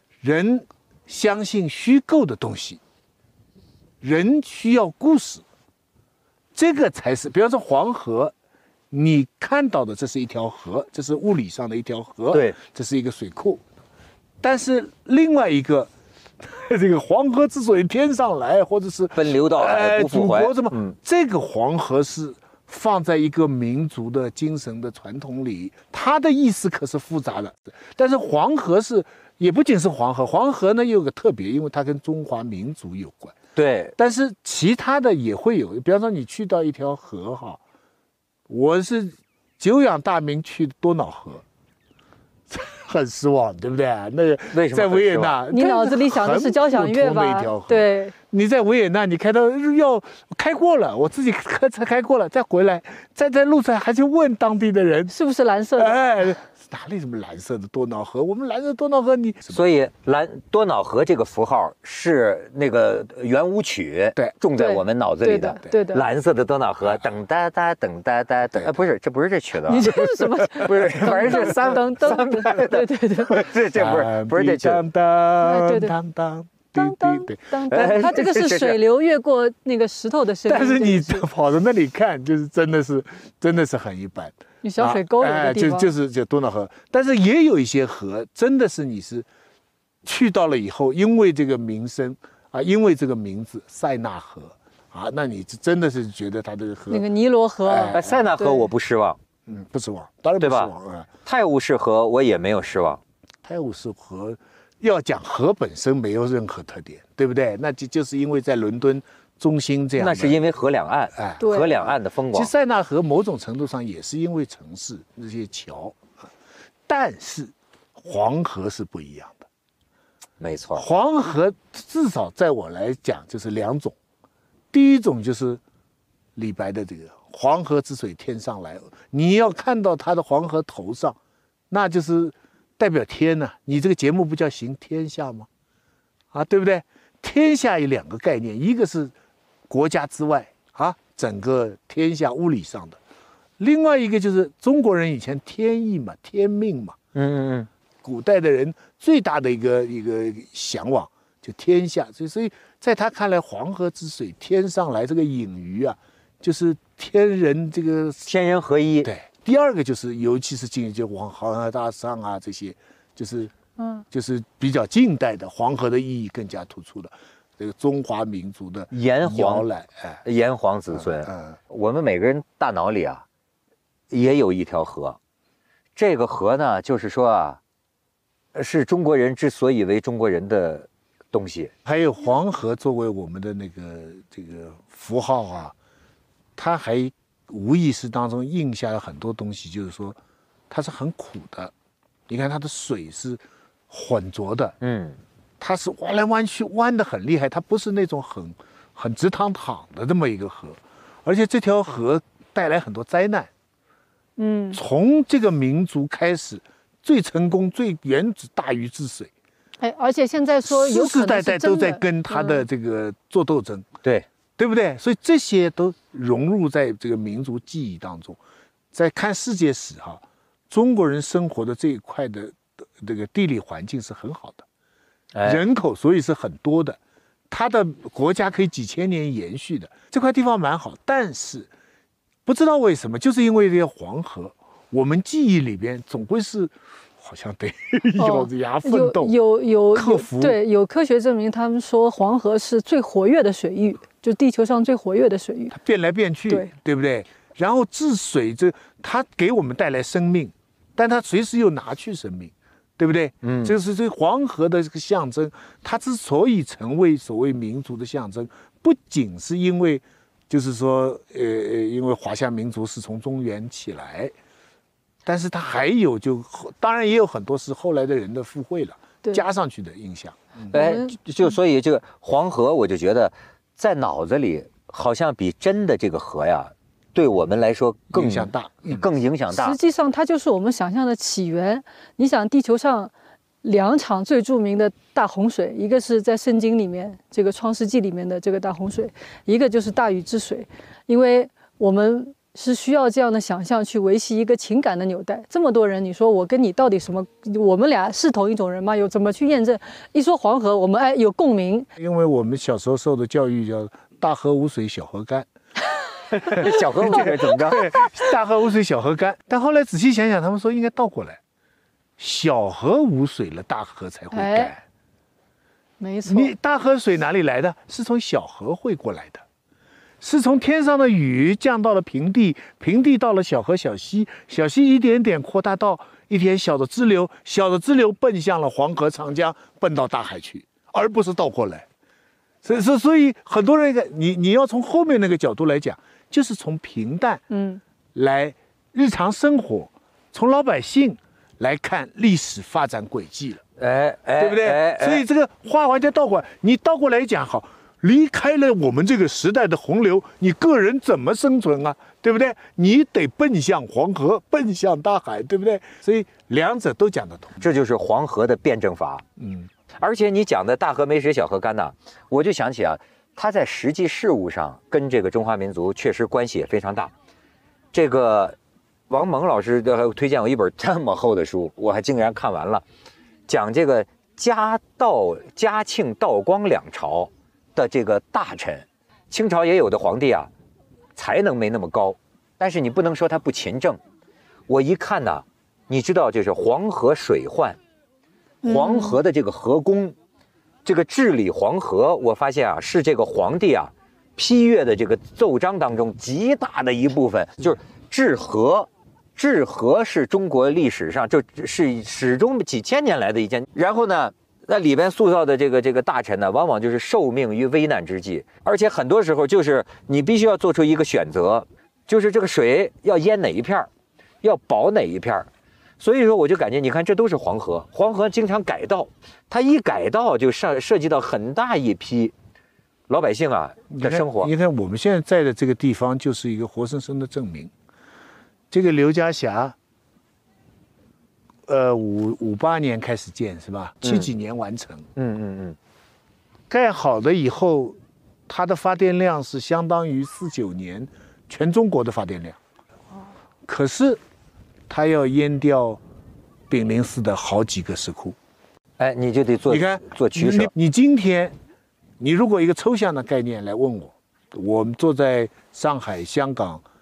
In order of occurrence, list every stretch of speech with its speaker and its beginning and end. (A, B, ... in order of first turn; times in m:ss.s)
0:00.2-0:02.8 A
0:04.0-0:05.4 A
0:06.5-0:08.3 A
0:08.9-0:13.6 A
0:14.4-0:33.4 A
0:19.2-0:21.0 B
0:33.5-0:34.0 B
0:34.0-0:37.6 A
0:38.5-0:41.4 A
0:42.5-0:55.1 A
0:44.5-0:45.3 B
0:45.5-0:48.1 C
0:55.1-0:56.0 C
0:55.8-0:59.6 A
0:59.5-1:14.8 B
1:04.6-1:06.0 C
1:09.7-1:13.4 C
1:10.6-1:11.4 A
1:13.7-1:18.2 A
1:15.4-1:16.0 C
1:16.8-1:21.2 C
1:17.7-1:18.8 B
1:20.5-1:29.3 A
1:24.6-1:25.9 C
1:30.0-1:37.0 A
1:36.9-1:38.7 C
1:37.6-1:38.3 A
1:37.9-1:39.2 B
1:39.4-1:41.1 A
1:40.4-1:40.7 B
1:41.2-1:43.0 B
1:43.4-1:50.4 A
1:50.0-1:52.5 B
1:51.2-1:56.0 A
1:51.4-1:51.7 C
1:56.9-1:59.4 A
2:00.4-2:00.9 B
2:00.8-2:04.0 A
2:04.7-2:05.6 A
2:06.4-2:11.2 A
2:11.7-2:15.5 A
2:16.3-2:19.1 A
2:19.7-2:23.0 A
2:23.6-2:27.0 A
2:27.1-2:27.7 B
2:28.0-2:38.3 A
2:38.2-2:39.1 B
2:39.0-2:43.5 A
2:43.8-2:44.0 C
2:44.1-2:50.2 A
2:48.9-2:49.7 B
2:50.2-2:53.2 B
2:50.9-2:51.6 A
2:54.1-2:55.2 B
2:55.9-2:57.6 B
2:58.5-3:01.7 B
3:01.8-3:05.7 A
3:06.6-3:10.2 A
3:10.7-3:11.7 A
3:12.3-3:14.8 A
3:14.8-3:15.2 B
3:15.6-3:23.5 A
3:24.4-3:24.8 C
3:24.7-3:29.3 A
3:29.8-3:32.6 C
3:30.6-3:33.9 A
3:34.6-3:38.4 A
3:38.9-3:44.7 A
3:45.3-3:45.6 B
3:45.4-3:47.0 A
3:47.5-3:51.7 A
3:52.4-3:59.4 A
3:58.2-4:05.8 C
3:59.9-4:00.6 A
4:05.7-4:24.3 A
4:13.4-4:13.7 B
4:25.2-4:30.7 A
4:30.7-4:39.8 B
4:30.7-4:31.2 C
4:38.1-4:39.1 A
4:39.5-4:43.1 C
4:43.6-5:01.9 C
5:02.0-5:05.5 A
5:06.3-5:07.9 B
5:06.5-5:11.4 A
5:06.6-5:07.2 C
5:12.2-5:14.8 A
5:14.3-5:14.7 C
5:16.0-5:16.5 C
5:16.2-5:19.4 A
5:20.2-5:31.9 A
5:32.6-5:37.4 A
5:37.5-5:37.8 C
5:38.2-5:43.6 A
5:43.8-5:45.2 B
5:44.4-5:57.6 A
5:57.6-5:59.2 B
5:59.4-5:59.7 A
6:00.0-6:07.1 B
6:07.9-6:08.6 B
6:09.1-6:12.8 B
6:13.5-6:20.5 B
6:21.2-6:24.0 B
6:24.7-6:27.8 B
6:28.6-6:29.2 C
6:28.6-6:30.2 B
6:30.8-6:53.9 B
6:54.4-6:55.5 B
6:56.0-7:02.3 B
7:03.1-7:04.5 B
7:03.9-7:07.7 A
7:08.7-7:09.8 A
7:11.7-7:15.1 A
7:15.2-7:15.8 B
7:16.7-7:22.6 A
7:23.7-7:24.2 A
7:24.9-7:26.0 A
7:26.7-7:28.4 A
7:29.0-7:30.7 B
7:29.7-7:31.6 A
7:32.2-7:36.8 A